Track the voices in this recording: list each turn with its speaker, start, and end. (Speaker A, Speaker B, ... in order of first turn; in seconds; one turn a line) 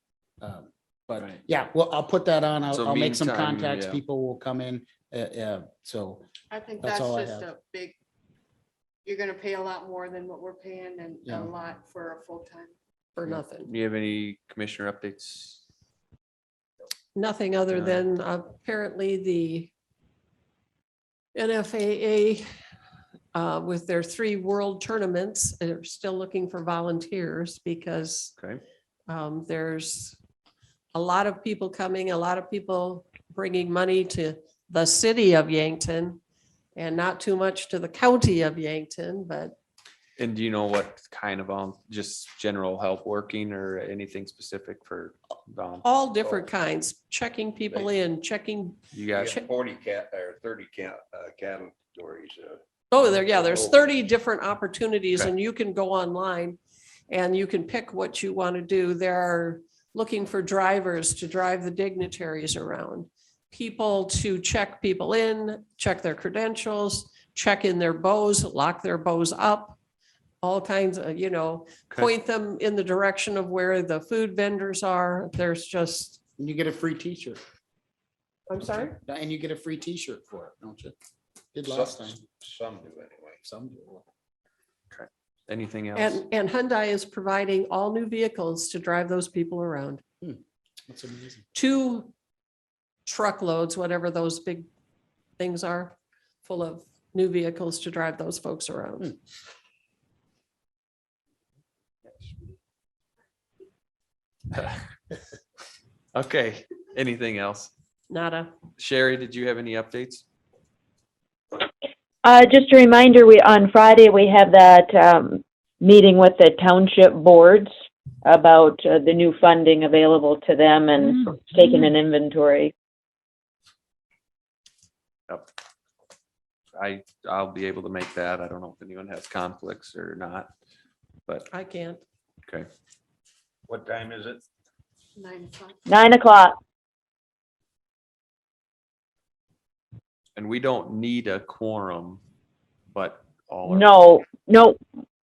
Speaker A: 0.4-6.2
Speaker B: 2.7-4.0
Speaker C: 6.5-8.0
Speaker A: 6.8-7.5
Speaker C: 9.1-12.8
Speaker A: 11.2-11.5
Speaker D: 13.2-13.7
Speaker B: 13.3-15.6
Speaker D: 17.1-19.7
Speaker B: 17.7-18.0
Speaker D: 21.3-22.5
Speaker D: 23.3-28.4
Speaker B: 28.4-28.6
Speaker D: 29.1-30.2
Speaker D: 30.9-36.2
Speaker D: 36.8-39.5
Speaker B: 40.2-45.9
Speaker D: 45.8-49.5
Speaker B: 48.9-49.4
Speaker E: 49.1-53.9
Speaker D: 52.9-56.6
Speaker D: 57.1-69.8
Speaker D: 70.4-76.2
Speaker A: 76.4-77.4
Speaker D: 78.5-79.0
Speaker A: 78.6-81.0
Speaker A: 81.5-82.2
Speaker E: 81.7-83.4
Speaker A: 83.4-84.1
Speaker B: 84.9-86.2
Speaker D: 86.0-90.0
Speaker A: 90.2-91.5
Speaker D: 91.5-92.1
Speaker D: 93.1-94.7
Speaker D: 95.4-99.2
Speaker B: 106.1-107.7
Speaker D: 108.1-108.5
Speaker B: 108.8-110.2
Speaker F: 112.2-117.7
Speaker F: 118.2-122.7
Speaker B: 126.7-130.5
Speaker D: 131.5-132.0
Speaker E: 133.7-134.4
Speaker C: 135.2-135.8
Speaker F: 135.9-136.6
Speaker B: 140.4-142.2
Speaker B: 142.9-143.9
Speaker F: 143.7-144.8